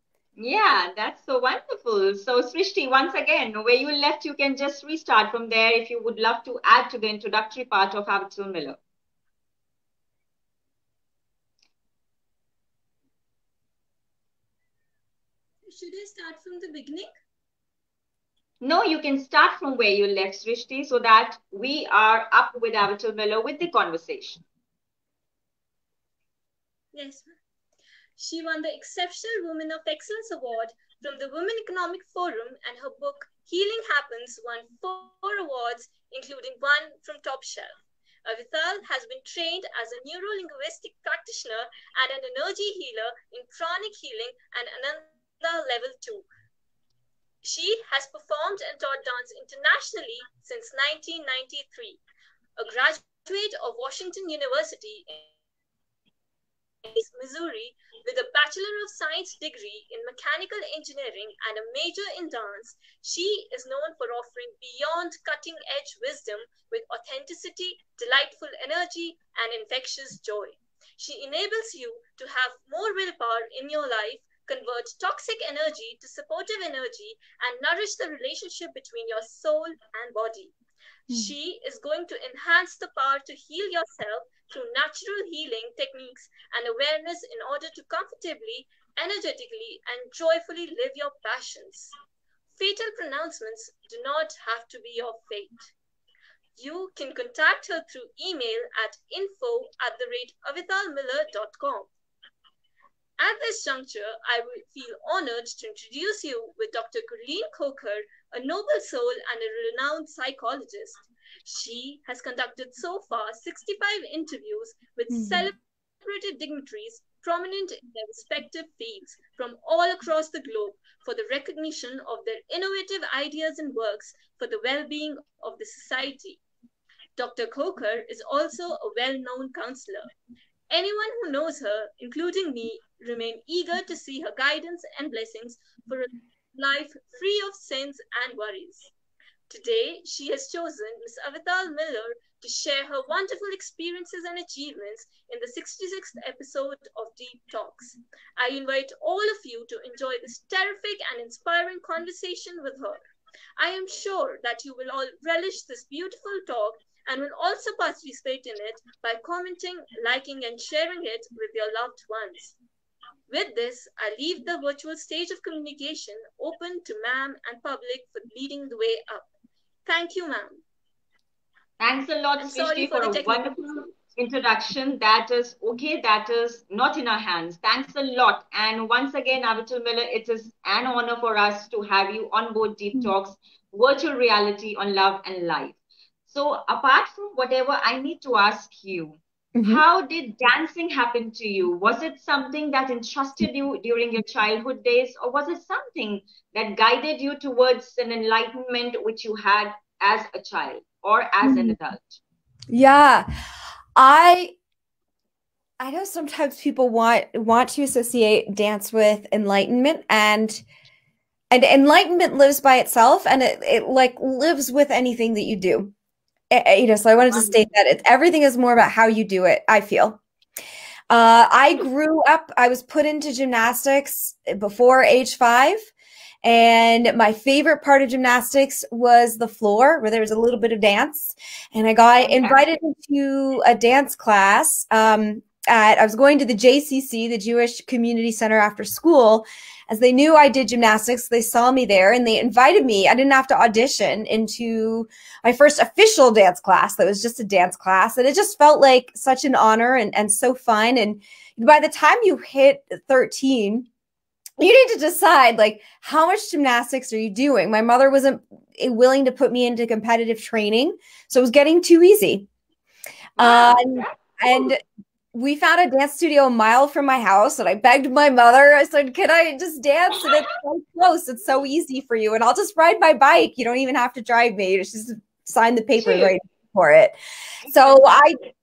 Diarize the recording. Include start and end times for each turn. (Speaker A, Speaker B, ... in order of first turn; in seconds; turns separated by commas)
Speaker A: 0.4-8.8, Speaker B: 15.7-17.1, Speaker A: 18.6-24.4, Speaker B: 26.9-27.3, Speaker B: 28.2-46.3, Speaker B: 47.4-52.0, Speaker B: 52.6-55.3, Speaker B: 56.9-80.5, Speaker B: 81.1-91.9, Speaker B: 92.6-95.7, Speaker B: 96.6-101.9, Speaker B: 103.2-126.4, Speaker C: 115.1-115.5, Speaker B: 127.2-130.1, Speaker B: 130.7-138.9, Speaker B: 139.5-153.0, Speaker B: 153.6-162.6, Speaker B: 163.3-169.3, Speaker B: 169.9-170.6, Speaker A: 171.8-202.2, Speaker B: 172.4-173.6, Speaker C: 189.6-189.8, Speaker C: 201.4-201.8, Speaker C: 202.7-203.3, Speaker C: 204.0-204.5, Speaker C: 205.8-210.6, Speaker C: 211.5-215.9, Speaker C: 216.5-220.2, Speaker A: 217.3-217.6, Speaker C: 221.1-225.9, Speaker C: 226.4-253.9, Speaker A: 232.2-232.6, Speaker C: 254.6-262.5, Speaker C: 263.4-264.8, Speaker A: 263.4-264.7, Speaker C: 265.3-277.1, Speaker A: 276.0-276.4, Speaker A: 277.7-278.2, Speaker C: 277.7-278.4